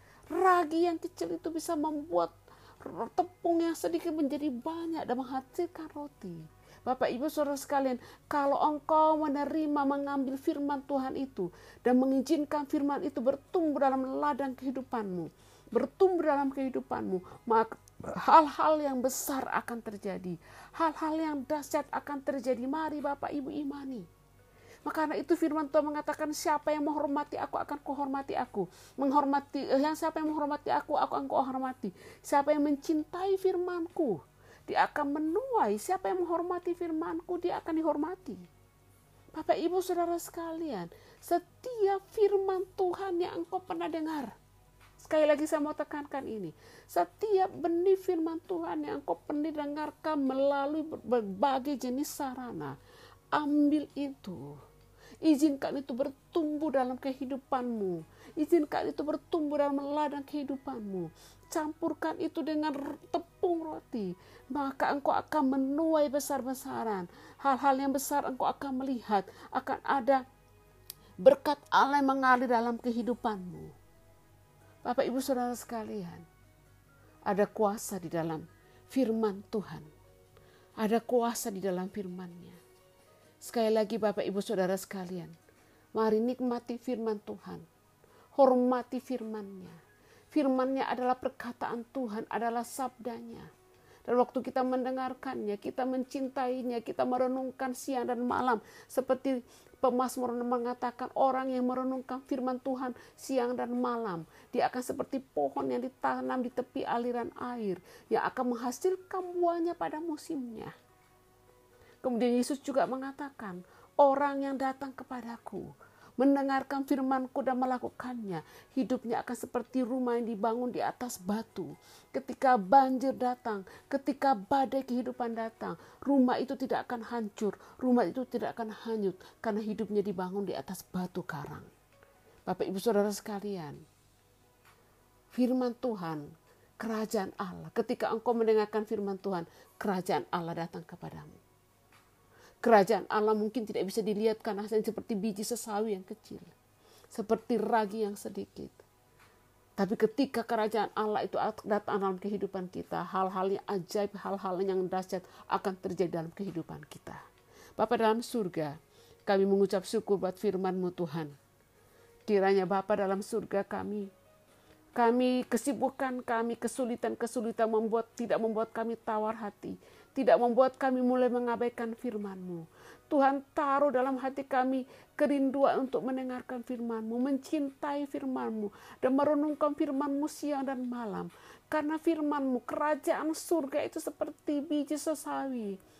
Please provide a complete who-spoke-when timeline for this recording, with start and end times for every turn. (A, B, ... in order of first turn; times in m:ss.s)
0:00.3-0:24.1 A
0:24.8-0:38.4 A
0:39.3-0:44.3 A
0:45.0-0:52.8 A
0:53.3-0:54.6 A
0:55.2-1:10.2 A
1:11.2-1:13.7 A
1:14.8-1:16.2 A
1:17.3-1:19.9 A
1:20.8-1:22.6 A
1:23.4-1:25.3 A
1:26.0-1:27.6 A
1:28.4-1:29.8 A
1:30.3-1:33.5 A
1:34.0-1:50.7 A
1:52.0-2:11.7 A
2:12.4-2:13.8 A
2:15.3-2:16.3 A
2:16.8-2:21.4 A
2:22.6-2:26.5 A
2:27.1-2:28.8 A
2:29.8-2:37.2 A
2:37.8-2:38.7 A
2:39.3-2:41.3 A
2:42.3-2:44.1 A
2:45.0-3:05.8 A